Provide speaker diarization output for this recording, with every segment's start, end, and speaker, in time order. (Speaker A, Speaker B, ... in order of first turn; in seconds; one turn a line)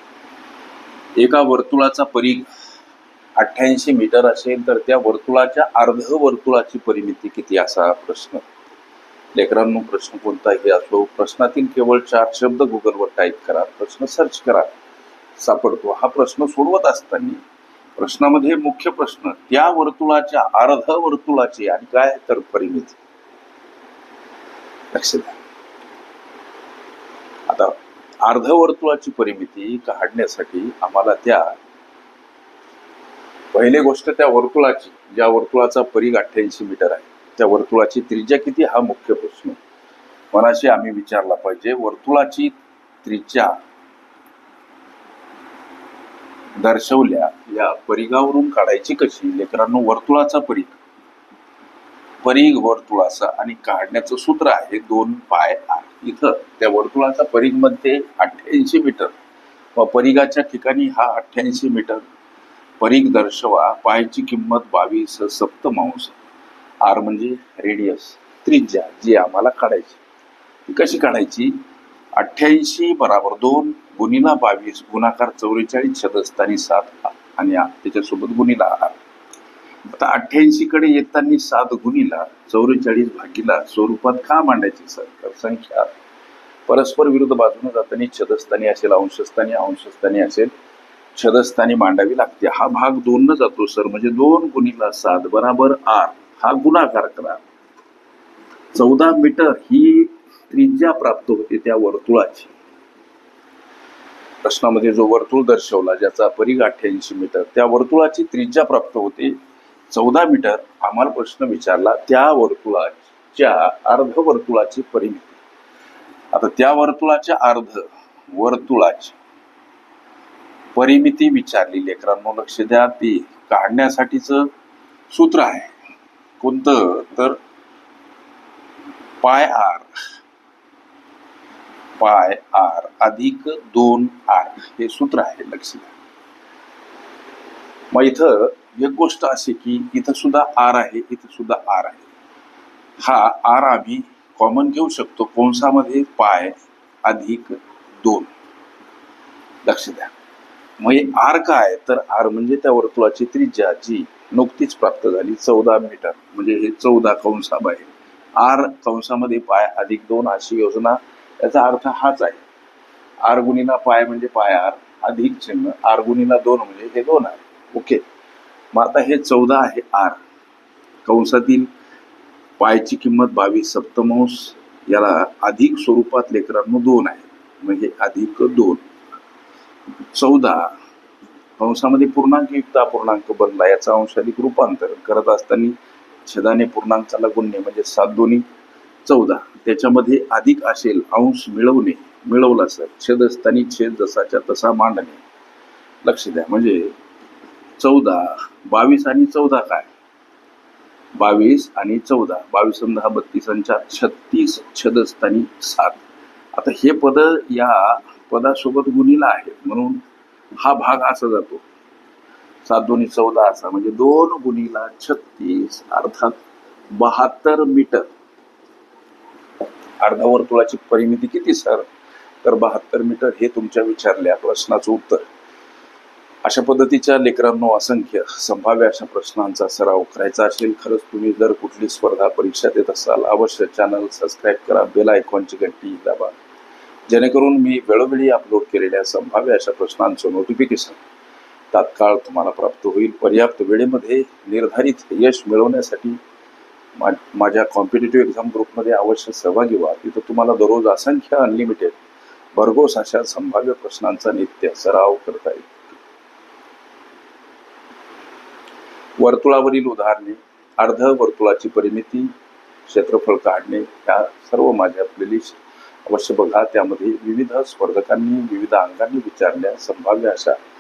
Speaker A: 1.1-2.5
Speaker A: 3.4-8.4
Speaker A: 9.3-14.7
Speaker A: 15.4-17.4
Speaker A: 18.0-23.0
Speaker A: 24.9-25.4
Speaker A: 27.5-31.6
Speaker A: 33.5-39.6
Speaker A: 40.3-43.6
Speaker A: 46.6-50.8
Speaker A: 52.2-59.1
Speaker A: 59.7-62.0
Speaker A: 62.8-66.2
Speaker A: 66.8-70.0
Speaker A: 70.7-71.6
Speaker A: 72.1-79.0
Speaker A: 79.9-85.9
Speaker A: 86.7-90.5
Speaker A: 91.1-97.4
Speaker A: 98.7-102.5
Speaker A: 104.4-109.4
Speaker A: 109.9-115.4
Speaker A: 116.3-119.2
Speaker A: 120.7-124.5
Speaker A: 125.1-125.7
Speaker A: 126.4-127.4
Speaker A: 129.2-129.9
Speaker A: 132.0-135.9
Speaker A: 137.9-142.1
Speaker A: 143.0-148.3
Speaker A: 149.6-150.1
Speaker A: 150.8-162.4
Speaker A: 163.2-168.0
Speaker A: 168.7-170.2
Speaker A: 171.0-171.7
Speaker A: 172.6-178.8
Speaker A: 180.1-180.7
Speaker A: 181.6-188.4
Speaker A: 189.0-195.2
Speaker A: 196.0-196.9
Speaker A: 197.8-199.9
Speaker A: 201.2-206.0
Speaker A: 206.5-210.0
Speaker A: 210.6-211.6
Speaker A: 212.6-216.4
Speaker A: 216.9-218.1
Speaker A: 220.0-221.8
Speaker A: 222.4-225.2
Speaker A: 226.4-236.3
Speaker A: 237.1-241.0
Speaker A: 241.7-246.2
Speaker A: 246.9-252.0
Speaker A: 252.5-255.8
Speaker A: 259.2-262.3
Speaker A: 262.9-270.6